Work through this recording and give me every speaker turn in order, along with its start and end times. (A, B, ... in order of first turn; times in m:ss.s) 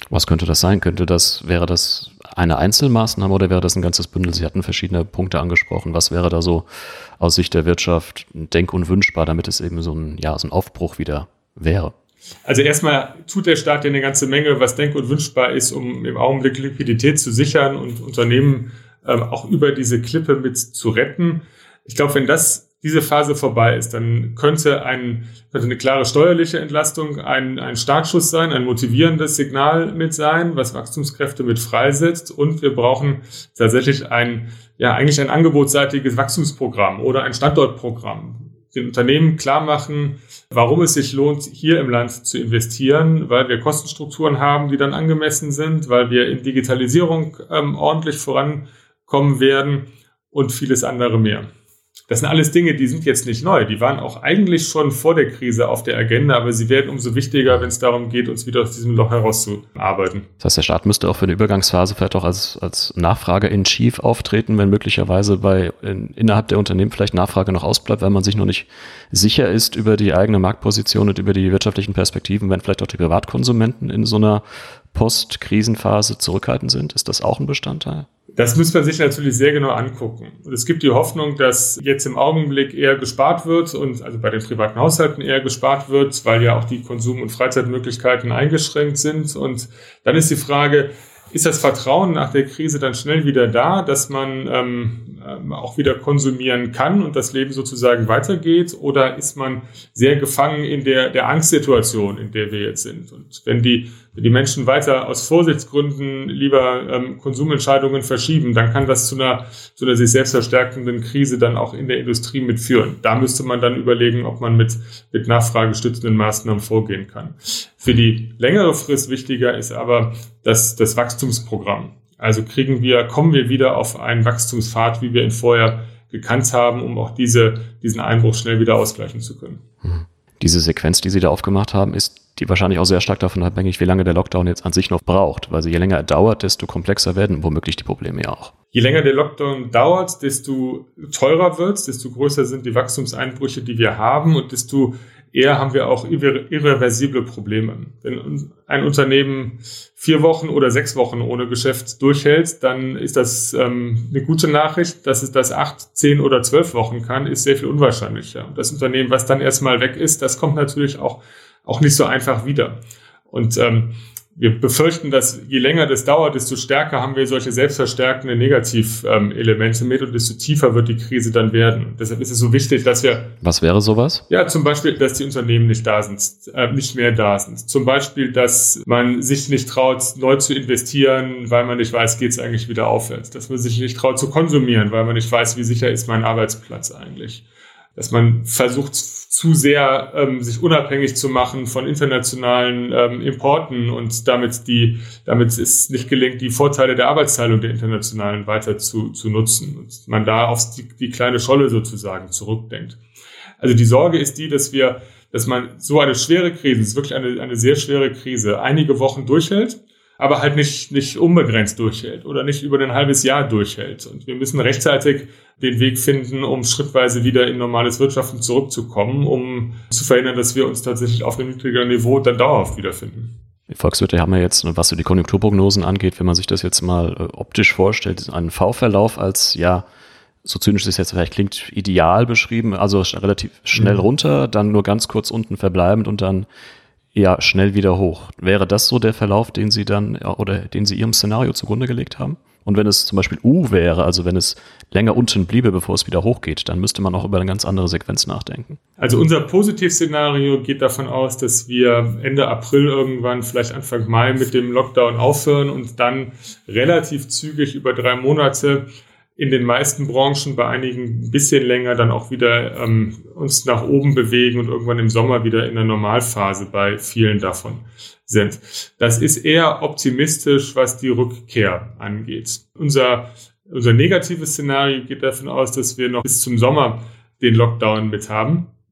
0:00.1-0:06.6 A
0:07.2-0:11.9 A
0:12.5-0:51.5 B
0:52.1-1:00.3 B
1:00.4-1:18.1 A
1:18.3-2:09.6 B
2:09.8-2:18.5 A
2:18.7-2:42.8 B
2:43.3-2:53.3 B
2:53.4-2:54.2 A
2:54.3-3:07.4 B
3:08.0-3:23.0 B
3:23.6-3:43.3 B
3:43.7-3:49.8 A
3:50.4-3:56.5 A
3:53.8-3:54.0 B
3:57.1-4:08.8 A
4:09.0-4:18.8 B
4:19.4-4:38.7 B